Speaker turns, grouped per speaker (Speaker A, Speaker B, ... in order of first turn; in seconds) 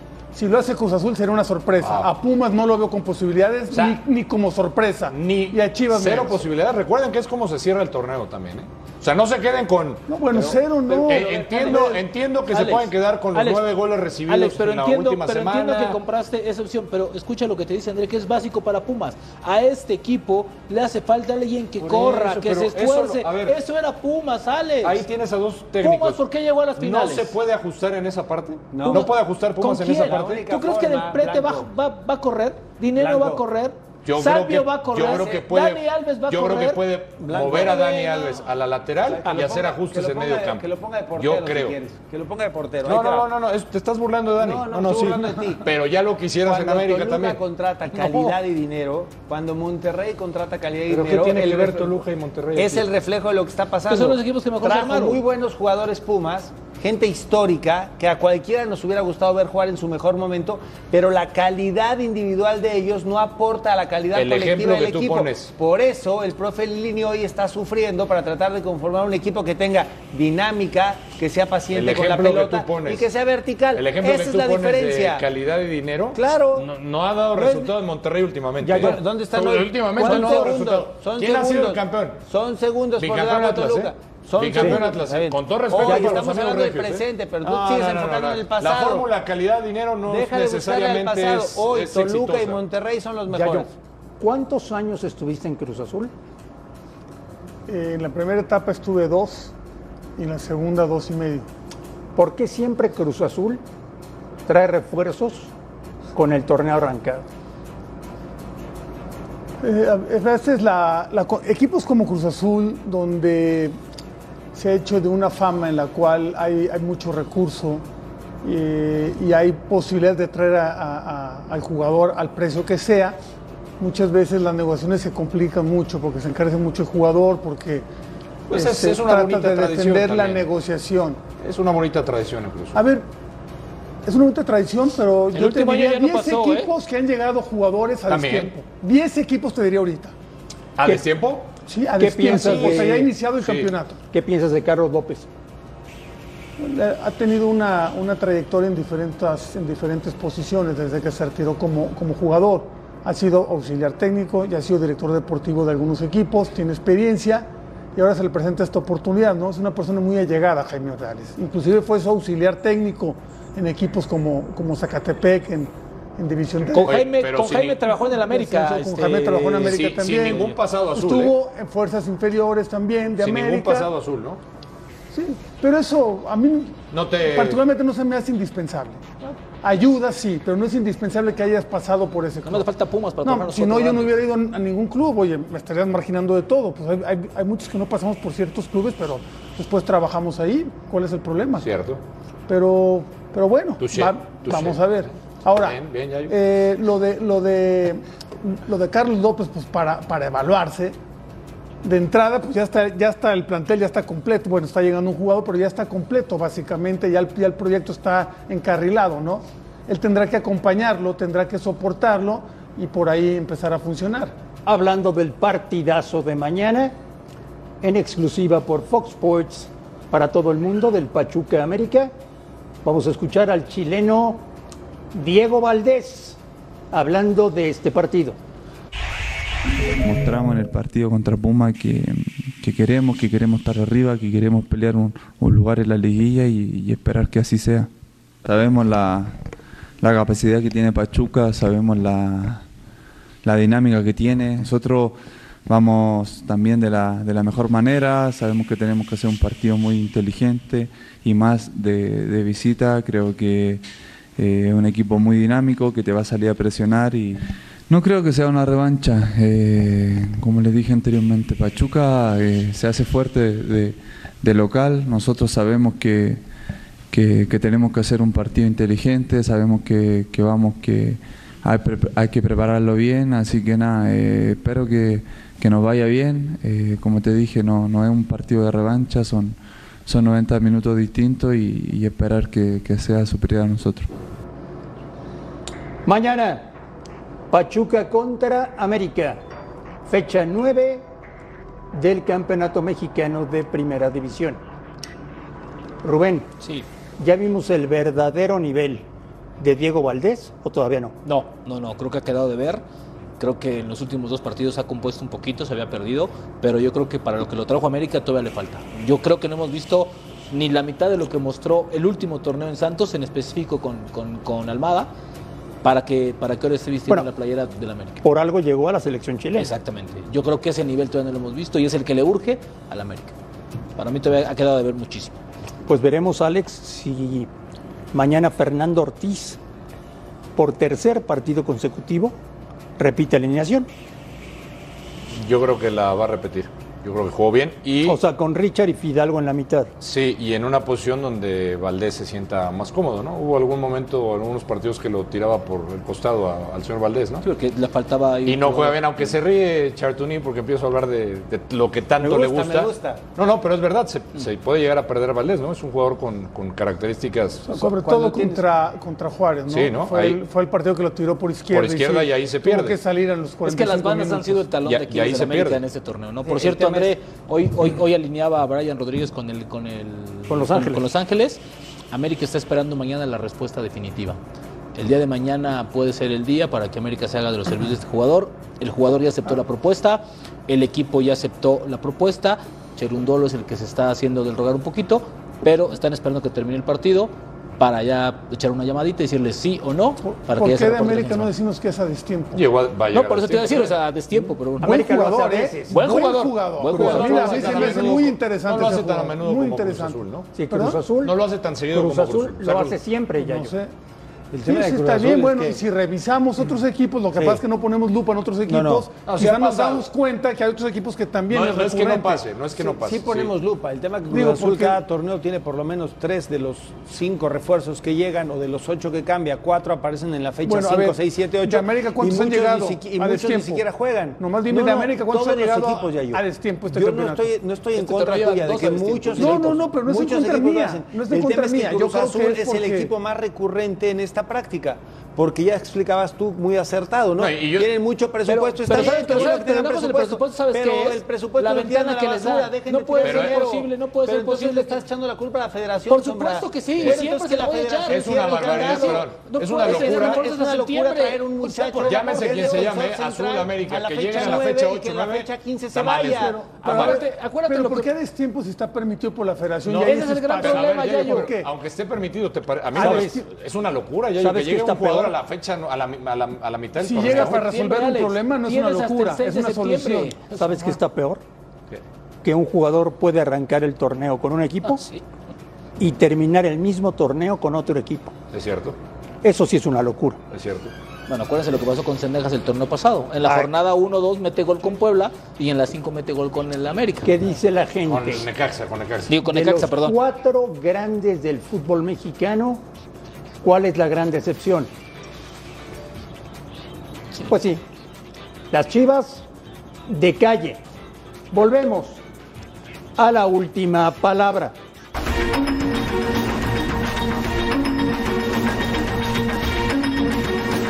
Speaker A: 0.3-6.4, 10.1-11.9, 97.7-99.5, 100.2-101.5, 109.6-113.8, 114.5-117.8, 118.4-123.2, 123.8-127.8, 128.5-131.2, 132.7-133.1, 134.0-140.1, 141.7-144.0, 146.6-166.9, 167.9-173.9, 175.1-182.7, 183.2-191.7, 192.5-201.0, 201.8-214.3, 357.7-364.6, 390.2-392.6, 394.8-401.0, 403.3-403.9, 404.6-412.5, 414.3-415.0, 420.6-423.9, 424.4-427.5, 429.4-433.1, 456.2-461.7, 463.0-463.2, 467.0-470.4
Speaker B: 1.8-2.1, 3.7-4.0, 5.1-10.0, 11.0-16.0, 21.8-23.6, 24.8-26.2, 26.8-30.4, 34.0-41.8, 42.8-47.4, 50.9-52.9, 64.1-65.5, 71.7-73.1, 73.7-82.2, 83.0-92.6, 128.5-130.5, 131.4-132.8, 138.1-138.5, 140.8-141.5, 142.3-143.7, 166.8-167.8, 169.6-171.3, 173.2-174.4, 176.9-177.6, 191.6-192.0, 193.8-196.3, 335.3-338.2, 340.0-347.4, 348.4-357.7, 359.7-360.4, 361.7-363.0, 364.8-365.8, 392.5-393.9, 396.9-400.5, 401.2-403.0, 409.2-410.1, 411.5-413.5, 437.4-437.9, 439.0-439.5, 443.2-443.6, 448.1-450.4, 452.0-457.2, 459.8-467.6, 478.5-479.0, 480.5-480.9, 488.1-489.3
Speaker C: 10.3-13.7, 14.3-25.0, 25.8-27.4, 28.9-36.9, 37.4-38.4, 47.9-48.4, 53.9-55.2, 135.3-136.7, 166.7-169.8, 182.4-184.2, 301.2-302.8, 303.4-315.1, 315.8-318.2, 319.5-323.3, 324.0-325.4, 347.4-349.4, 363.6-374.4, 374.9-391.5, 393.1-395.0, 395.9-398.2, 427.9-429.8, 438.5-445.0, 446.1-452.9, 456.8-458.1, 460.0-461.5, 467.2-470.9, 474.8-475.2, 481.3-487.3, 489.3-490.2
Speaker D: 28.7-29.1, 30.0-31.7, 32.9-33.4, 37.2-37.9, 39.0-43.3, 44.4-45.7, 46.4-52.0, 52.5-75.2, 76.1-76.7, 77.3-77.7, 78.8-89.1, 90.0-93.7, 352.2-353.2, 357.7-358.6, 366.4-367.2, 404.5-405.8, 407.3-407.6, 408.7-409.1, 412.8-456.6
Speaker E: 78.6-79.0, 85.8-86.2, 93.3-93.7, 94.2-96.1, 102.2-103.6, 104.5-105.5, 106.1-107.3, 142.0-143.1, 144.1-145.3, 214.7-216.9, 217.8-222.1, 222.8-224.5, 225.1-226.4, 226.9-228.4, 286.1-286.7, 287.5-289.4, 290.1-291.0, 291.9-294.6, 296.0-296.5, 297.2-299.0, 299.6-301.1, 318.2-319.7, 325.9-327.5, 328.1-329.6, 330.6-332.3, 333.0-333.9, 338.0-339.9, 370.5-371.0, 394.8-396.2, 400.5-401.4, 401.9-403.7, 462.9-463.4, 464.4-465.4, 470.5-471.4, 472.4-475.0, 476.0-478.3, 479.4-480.4, 487.2-488.4, 489.4-492.8, 493.6-494.9, 497.5-497.8, 498.7-499.4, 500.1-500.8, 501.5-502.2, 503.2-504.7
Speaker F: 230.0-237.9, 238.4-239.4, 240.0-242.6, 243.4-266.4, 267.1-284.1